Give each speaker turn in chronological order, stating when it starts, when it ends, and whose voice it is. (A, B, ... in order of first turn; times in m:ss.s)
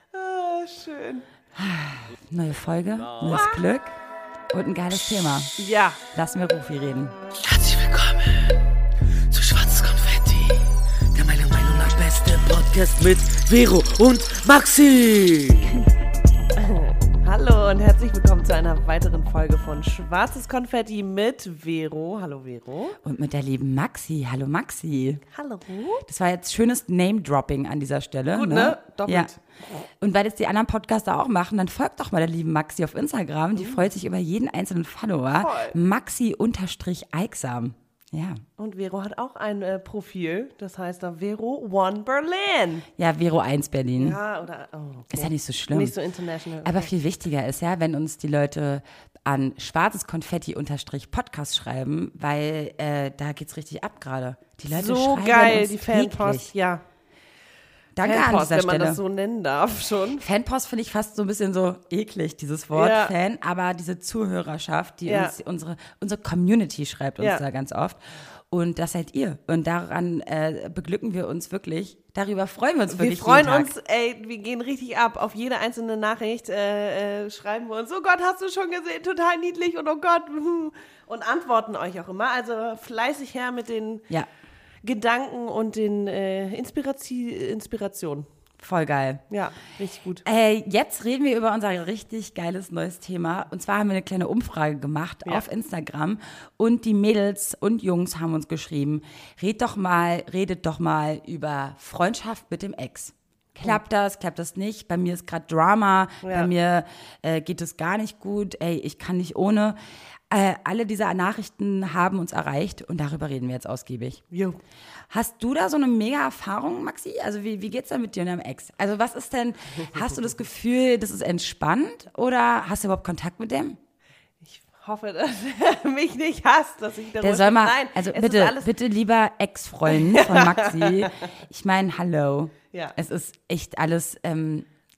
0:00.1-0:01.3 A
0:01.6-0:04.0 B
0:03.1-0:03.4 C
0:03.3-0:03.6 A
0:04.5-0:05.5 B
0:05.6-0:06.0 A
0:06.1-0:07.2 B
0:07.5-0:08.2 C
0:09.3-0:10.6 C
0:11.2-0:15.7 C
0:16.6-0:23.0 A
0:23.0-0:25.2 B
0:25.3-0:26.1 A
0:26.1-0:29.3 B
0:28.3-0:29.4 A
0:30.0-0:38.4 B
0:35.4-0:35.8 A
0:38.6-0:42.9 A
0:43.0-0:44.2 B
0:44.0-0:46.9 A
0:45.1-0:45.9 B
0:46.6-0:56.5 B
0:54.7-0:56.8 A
0:58.0-0:59.0 B
0:58.0-1:00.2 A
1:00.2-1:08.0 B
1:02.7-1:03.1 A
1:05.1-1:05.4 A
1:08.5-1:13.7 B
1:12.9-1:24.1 A
1:24.8-1:28.3 A
1:28.6-1:29.2 B
1:29.3-1:30.2 A
1:30.2-1:49.8 B
1:46.2-1:46.5 A
1:50.3-1:54.2 B
1:54.3-1:54.6 A
1:55.1-2:03.8 B
2:04.4-2:08.7 A
2:07.2-2:14.7 B
2:09.9-2:11.3 A